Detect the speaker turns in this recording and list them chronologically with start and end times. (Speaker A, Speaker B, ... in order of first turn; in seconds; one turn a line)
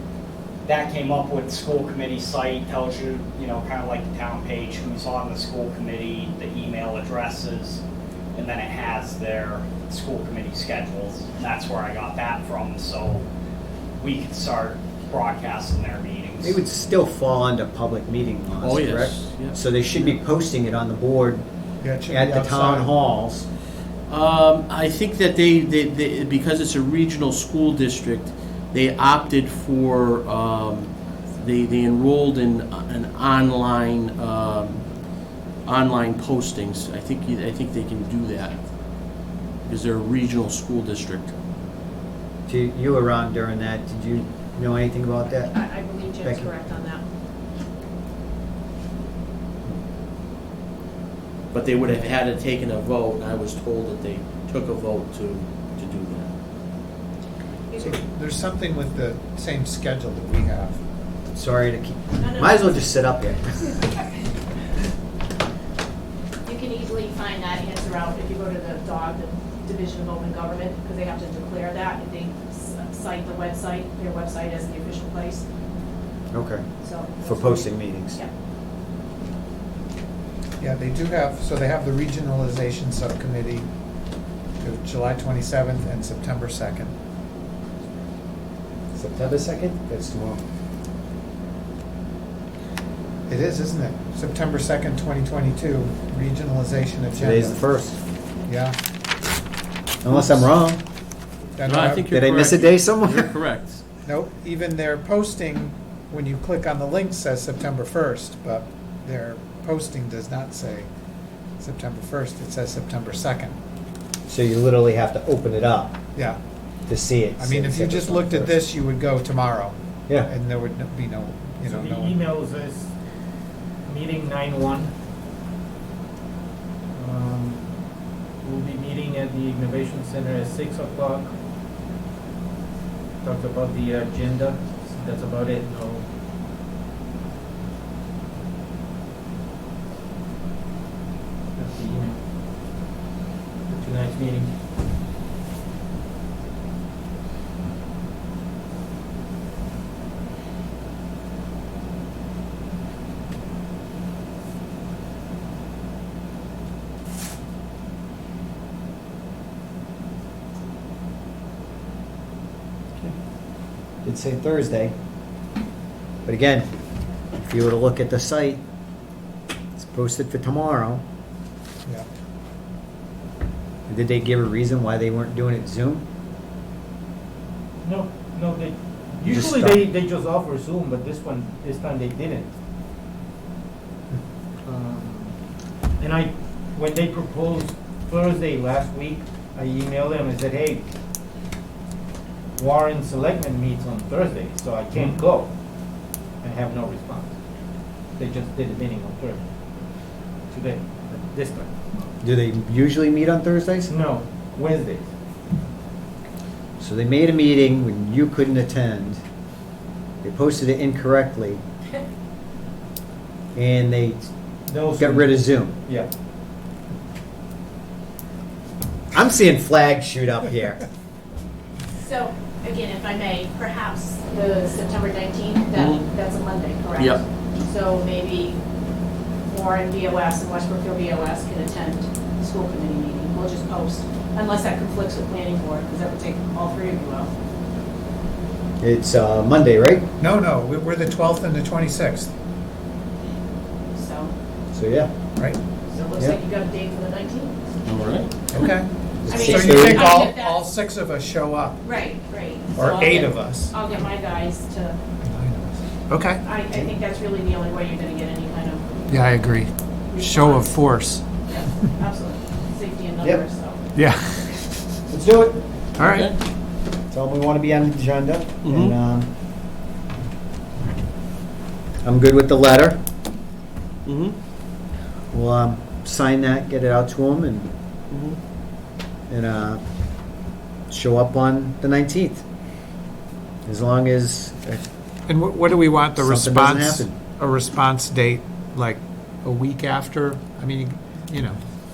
Speaker A: 0.7-7.8
Speaker A: 8.3-13.3
Speaker A: 14.0-16.6
Speaker B: 16.4-21.4
Speaker C: 18.6-20.1
Speaker D: 21.8-22.9
Speaker B: 22.1-23.5
Speaker C: 24.1-34.9
Speaker C: 35.7-38.6
Speaker C: 39.7-41.3
Speaker B: 42.5-45.5
Speaker E: 45.4-47.0
Speaker B: 46.2-46.5
Speaker C: 51.5-56.3
Speaker E: 57.7-58.0
Speaker D: 57.8-60.8
Speaker B: 61.3-63.7
Speaker E: 62.2-62.8
Speaker E: 66.5-75.4
Speaker B: 76.3-76.7
Speaker E: 76.8-78.3
Speaker B: 77.2-78.2
Speaker D: 80.6-83.7
Speaker D: 84.6-86.9
Speaker B: 88.9-90.4
Speaker D: 93.3-97.6
Speaker B: 97.2-98.0
Speaker D: 98.5-98.8
Speaker B: 100.0-100.8
Speaker D: 100.1-100.4
Speaker D: 101.6-102.1
Speaker C: 101.6-103.8
Speaker B: 102.1-103.3
Speaker D: 104.0-110.9
Speaker D: 111.6-113.5
Speaker B: 114.3-116.0
Speaker D: 116.2-116.4
Speaker B: 116.9-118.6
Speaker D: 117.4-122.2
Speaker F: 121.6-122.9
Speaker F: 123.9-124.9
Speaker F: 126.9-127.6
Speaker F: 128.4-131.3
Speaker F: 133.2-136.1
Speaker F: 141.6-142.2
Speaker F: 143.7-144.5
Speaker B: 164.0-164.9
Speaker B: 166.2-166.7
Speaker B: 167.4-168.6
Speaker B: 169.8-171.0
Speaker B: 173.9-176.0
Speaker F: 177.8-182.5
Speaker B: 179.3-179.8
Speaker F: 184.6-185.3
Speaker F: 186.0-190.9
Speaker F: 192.6-195.5
Speaker F: 196.4-197.3
Speaker F: 198.2-199.4
Speaker F: 200.5-201.7
Speaker B: 202.2-203.9
Speaker F: 203.9-205.1
Speaker B: 206.8-209.2
Speaker B: 210.2-211.6
Speaker B: 213.6-214.3
Speaker F: 214.7-216.1
Speaker B: 215.0-215.8
Speaker B: 219.1-220.8
Speaker E: 221.9-228.6
Speaker C: 225.8-226.1
Speaker C: 227.0-227.2
Speaker E: 229.5-237.3
Speaker B: 238.8-240.1
Speaker D: 240.2-242.3
Speaker E: 243.9-244.3
Speaker B: 244.7-245.1
Speaker E: 245.9-247.6
Speaker C: 247.9-248.3
Speaker D: 248.5-251.8
Speaker B: 249.2-250.3
Speaker E: 249.3-250.6
Speaker E: 251.8-255.0
Speaker D: 252.8-253.7
Speaker D: 255.2-256.4
Speaker E: 256.4-258.8
Speaker D: 259.1-261.4
Speaker E: 260.1-260.8
Speaker E: 261.4-263.8
Speaker D: 263.9-264.6
Speaker B: 265.1-265.6
Speaker D: 266.0-266.3
Speaker C: 266.0-266.4
Speaker B: 267.1-269.3
Speaker C: 268.6-268.9
Speaker B: 272.0-273.0
Speaker C: 274.1-274.4
Speaker B: 275.3-277.7
Speaker C: 278.1-278.4
Speaker B: 279.3-279.8
Speaker B: 280.9-282.4
Speaker B: 283.7-284.8
Speaker D: 285.3-291.6
Speaker B: 286.2-287.1